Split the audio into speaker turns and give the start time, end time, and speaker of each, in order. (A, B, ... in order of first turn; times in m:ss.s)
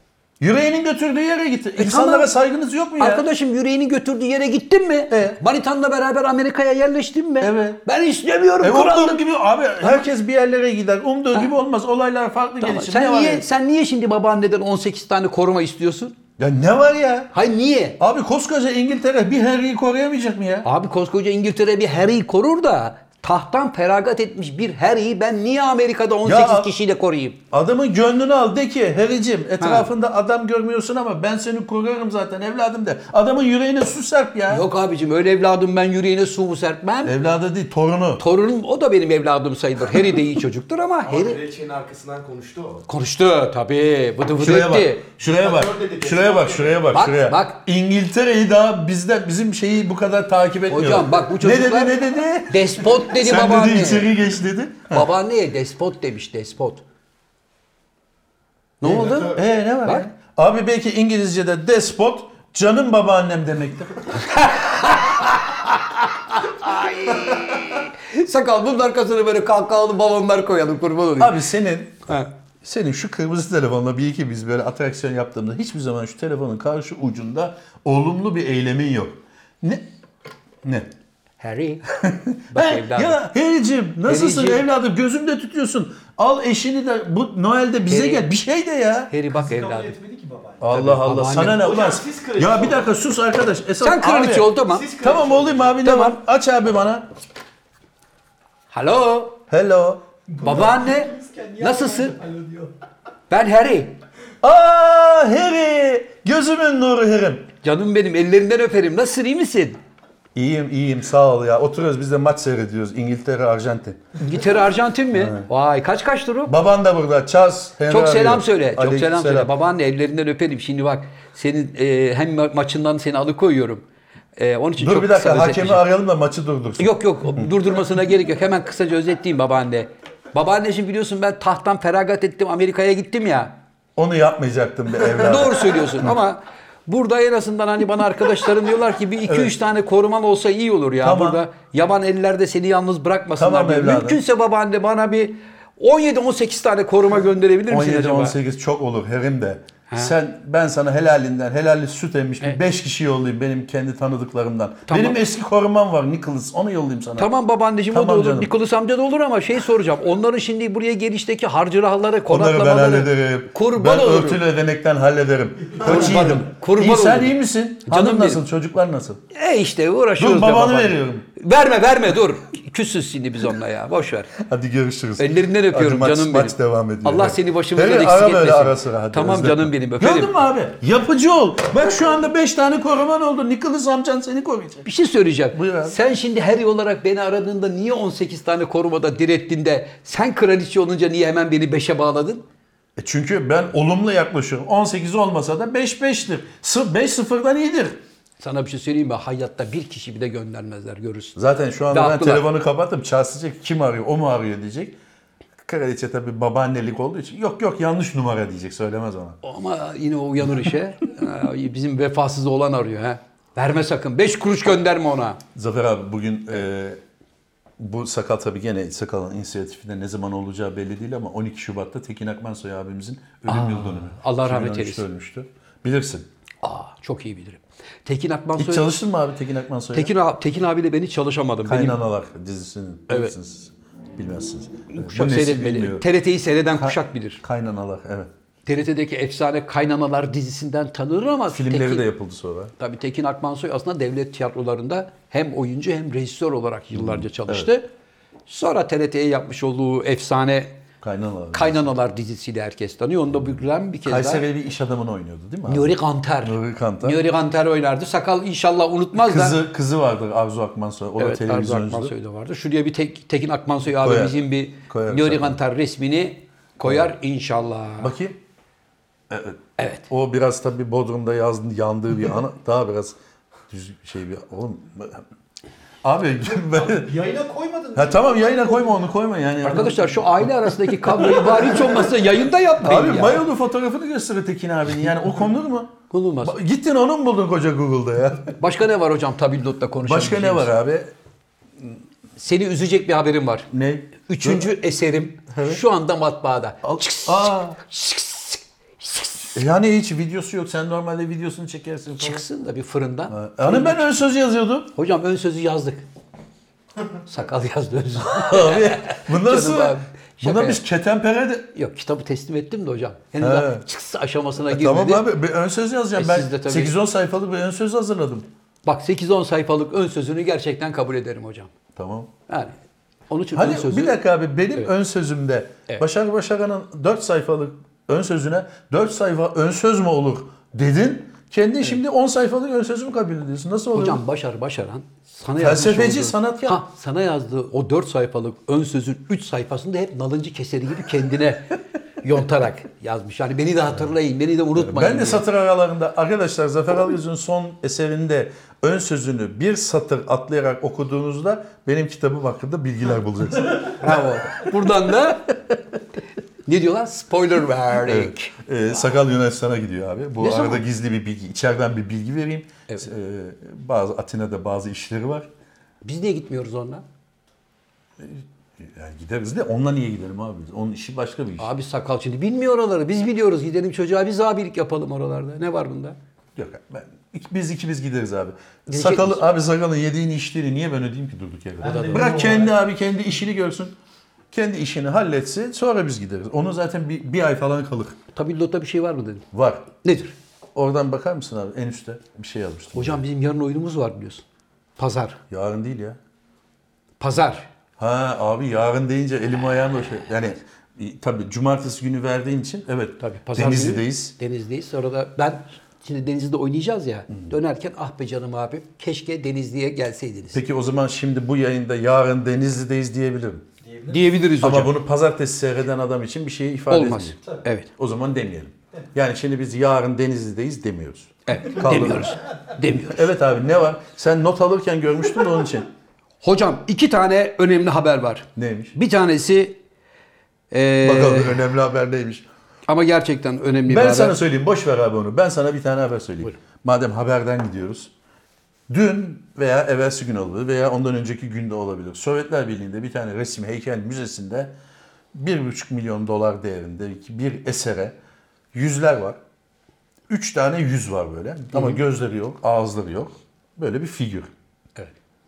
0:00.4-0:03.2 A
0:01.8-0:02.3 B
0:03.0-0:09.2 B
0:05.1-0:05.4 A
0:07.4-0:07.8 A
0:08.6-0:13.4 A
0:12.6-0:16.2 B
0:16.4-0:17.3 A
0:17.3-0:18.0 B
0:18.0-0:20.7 A
0:20.6-0:27.4 B
0:26.2-0:26.7 A
0:27.5-0:34.6 A
0:29.6-0:29.9 B
0:34.5-0:37.1 B
0:37.0-0:38.2 A
0:38.2-0:41.4 B
0:41.0-0:42.8 C
0:42.9-0:45.1 B
0:44.4-0:55.1 A
0:45.2-0:46.8 C
0:46.9-0:47.6 B
0:50.7-0:51.9 B
0:52.5-0:54.1 B
0:54.9-0:56.8 B
0:58.8-1:00.0 B
0:58.8-1:04.2 A
1:04.2-1:11.3 B
1:11.2-1:19.9 A
1:20.6-1:20.9 A
1:21.4-1:21.8 B
1:22.0-1:29.1 A
1:22.5-1:23.2 B
1:24.0-1:24.6 B
1:27.9-1:28.2 B
1:29.1-1:30.0 B
1:29.3-1:30.7 D
1:30.6-1:37.1 A
1:30.7-1:31.6 B
1:31.4-1:32.8 C
1:33.8-1:34.9 B
1:34.7-1:35.8 C
1:35.8-1:36.2 B
1:38.7-1:39.4 B
1:39.5-1:40.0 A
1:40.3-1:42.7 D
1:40.4-1:42.1 B
1:43.3-1:44.0 B
1:44.4-1:47.5 A
1:47.6-1:49.8 B
1:50.3-1:54.1 A
1:54.2-1:56.5 B
1:55.1-1:55.5 A
1:56.5-1:59.5 A
1:57.9-2:03.8 B
2:04.4-2:05.8 B
2:04.8-2:07.5 A
2:06.8-2:13.6 B
2:14.0-2:16.1 A
2:15.1-2:28.4 B
2:19.3-2:19.5 A
2:21.0-2:21.4 A
2:23.4-2:24.2 A
2:27.7-2:37.3 A
2:34.9-2:35.2 B
2:37.2-2:44.4 B
2:37.9-2:38.5 A
2:42.3-2:49.2 A
2:45.8-2:47.3 B
2:47.8-2:48.4 B
2:49.3-2:54.3 B
2:50.2-2:51.2 A
2:54.4-3:04.9 A
2:55.2-3:00.4 B
3:04.8-3:12.4 B
3:05.5-3:06.0 A
3:13.0-3:18.0 A
3:18.4-3:21.4 B
3:21.3-3:25.0 A
3:21.9-3:22.4 B
3:25.6-3:29.4 A
3:29.4-3:35.4 B
3:35.5-3:37.0 A
3:37.8-3:46.3 A
3:43.5-3:45.0 B
3:46.6-3:48.9 B
3:48.6-3:50.1 A
3:49.9-3:52.0 B
3:51.6-3:56.0 A
3:54.9-3:57.4 B
3:56.7-3:58.3 A
3:58.6-4:02.0 B
4:01.5-4:02.7 A
4:02.8-4:07.8 B
4:06.9-4:07.7 A
4:08.5-4:10.8 B
4:11.0-4:11.8 A
4:11.5-4:14.4 B
4:14.0-4:17.2 A
4:15.6-4:19.6 B
4:19.2-4:22.1 A
4:21.2-4:28.1 B
4:24.0-4:25.6 A
4:26.8-4:27.1 A
4:28.0-4:28.4 A
4:29.3-4:33.2 A
4:29.8-4:30.0 B
4:33.7-4:35.2 A
4:36.0-4:37.1 A
4:36.7-4:39.0 D
4:37.9-4:42.0 A
4:39.6-4:43.4 B
4:42.8-4:48.5 A
4:46.1-4:46.6 B
4:48.6-4:50.7 B
4:50.0-4:51.1 A
4:52.4-4:53.7 B
4:53.7-4:54.7 A
4:54.2-4:59.6 B
4:55.5-4:55.8 A
4:56.8-4:57.8 A
4:59.5-5:02.4 A
5:02.2-5:04.0 B
5:03.3-5:04.9 A
5:04.9-5:06.0 B
5:07.2-5:10.8 B
5:08.3-5:11.7 A
5:11.7-5:15.2 B
5:13.4-5:13.8 A
5:14.6-5:18.5 A
5:16.1-5:16.9 B
5:18.8-5:21.7 B
5:22.0-5:22.3 A
5:22.5-5:22.7 B
5:23.3-5:24.2 B
5:23.5-5:34.2 A
5:33.9-5:41.6 B
5:35.6-5:36.8 A
5:42.2-5:45.4 B
5:44.7-5:54.3 A
5:53.9-5:55.6 B
5:56.6-5:58.5 B
5:58.0-6:05.5 A
6:00.4-6:00.8 B
6:06.0-6:07.0 B
6:08.2-6:11.7 A
6:11.6-6:16.2 B
6:16.6-6:24.0 A
6:18.9-6:19.4 B
6:21.8-6:22.8 D
6:21.8-6:22.4 B
6:24.5-6:28.2 A
6:28.3-6:30.3 B
6:29.5-6:29.9 A
6:30.7-6:33.2 A
6:32.9-6:34.4 B
6:35.0-6:35.4 B
6:35.5-6:36.2 A
6:37.2-6:37.7 B
6:38.0-6:44.3 A
6:43.2-6:50.6 B
6:50.5-6:53.6 A
6:53.8-6:54.4 D
6:54.1-6:54.9 B
6:54.6-6:57.4 A
6:56.9-6:57.9 B
6:58.0-7:02.4 A
7:01.4-7:03.3 B
7:03.1-7:05.9 A
7:06.4-7:09.8 B
7:08.6-7:08.9 A
7:10.7-7:11.6 B
7:11.0-7:12.5 A
7:12.9-7:14.4 B
7:13.9-7:18.1 A
7:18.9-7:24.7 A
7:25.3-7:28.2 A
7:28.7-7:29.4 A
7:30.3-7:34.5 A
7:31.7-7:32.0 B